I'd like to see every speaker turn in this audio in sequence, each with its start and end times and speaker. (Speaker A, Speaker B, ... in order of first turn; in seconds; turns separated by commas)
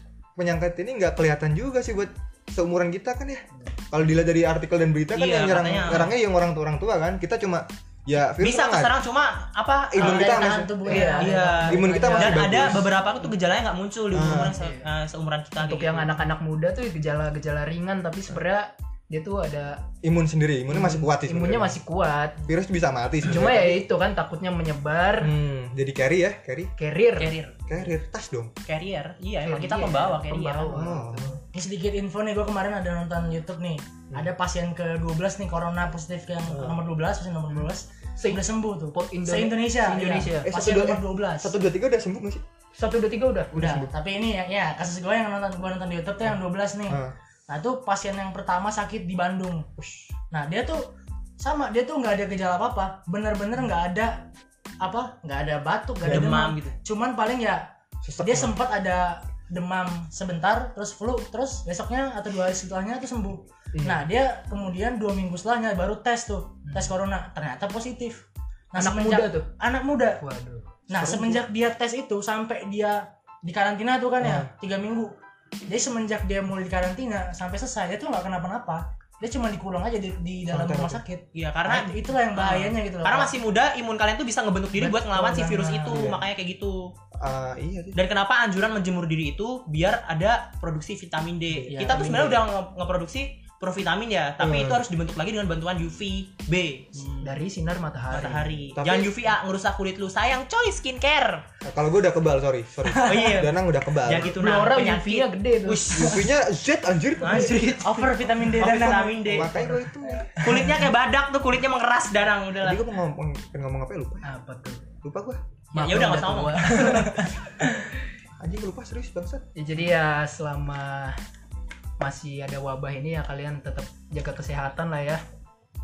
Speaker A: 0.4-8.9, Speaker B: 5.2-6.1, Speaker B: 8.4-16.3, Speaker A: 9.9-11.0, Speaker C: 9.9-11.9, Speaker D: 10.8-12.4, Speaker A: 11.7-12.9, Speaker A: 14.1-14.6, Speaker D: 14.6-14.8, Speaker D: 15.6-19.8, Speaker A: 20.0-21.8, Speaker D: 20.7-22.4, Speaker A: 22.4-23.8, Speaker D: 23.2-25.3, Speaker A: 25.2-26.7, Speaker D: 26.8-27.3, Speaker B: 27.2-27.6, Speaker A: 27.7-28.5, Speaker B: 28.6-30.9, Speaker D: 29.4-31.4, Speaker A: 30.7-31.4, Speaker C: 31.5-41.6, Speaker A: 36.5-36.8, Speaker D: 38.2-40.5, Speaker A: 40.4-42.4, Speaker D: 42.8-43.5, Speaker A: 43.5-43.9, Speaker C: 43.5-49.7, Speaker A: 46.9-47.1, Speaker A: 49.8-50.1, Speaker C: 50.3-54.3, Speaker C: 54.8-57.7, Speaker A: 56.0-56.3, Speaker B: 56.0-56.8, Speaker A: 58.0-58.6, Speaker C: 58.2-70.2, Speaker A: 63.7-64.0, Speaker D: 66.7-66.9, Speaker D: 68.8-69.5, Speaker D: 70.2-70.7, Speaker C: 70.9-75.1, Speaker A: 70.9-71.4, Speaker A: 74.2-74.5, Speaker C: 75.7-83.3, Speaker A: 80.5-81.0, Speaker B: 81.3-86.9, Speaker D: 84.8-86.2, Speaker A: 85.9-86.2, Speaker A: 87.2-88.0, Speaker B: 87.9-97.1, Speaker D: 91.6-92.4, Speaker A: 91.7-92.4, Speaker A: 94.4-94.8, Speaker D: 97.2-98.5, Speaker B: 98.1-101.4, Speaker A: 98.8-99.1, Speaker A: 101.6-104.3, Speaker C: 102.9-103.3, Speaker B: 103.0-106.3, Speaker D: 104.3-105.9, Speaker A: 105.9-107.6, Speaker B: 107.2-109.7, Speaker C: 107.3-109.5, Speaker A: 108.5-110.6, Speaker B: 110.4-112.8, Speaker A: 112.6-114.3, Speaker D: 114.2-114.8, Speaker A: 115.0-115.4, Speaker D: 115.7-117.9, Speaker B: 115.7-117.3, Speaker A: 118.4-119.4, Speaker D: 119.5-121.2, Speaker D: 122.0-125.2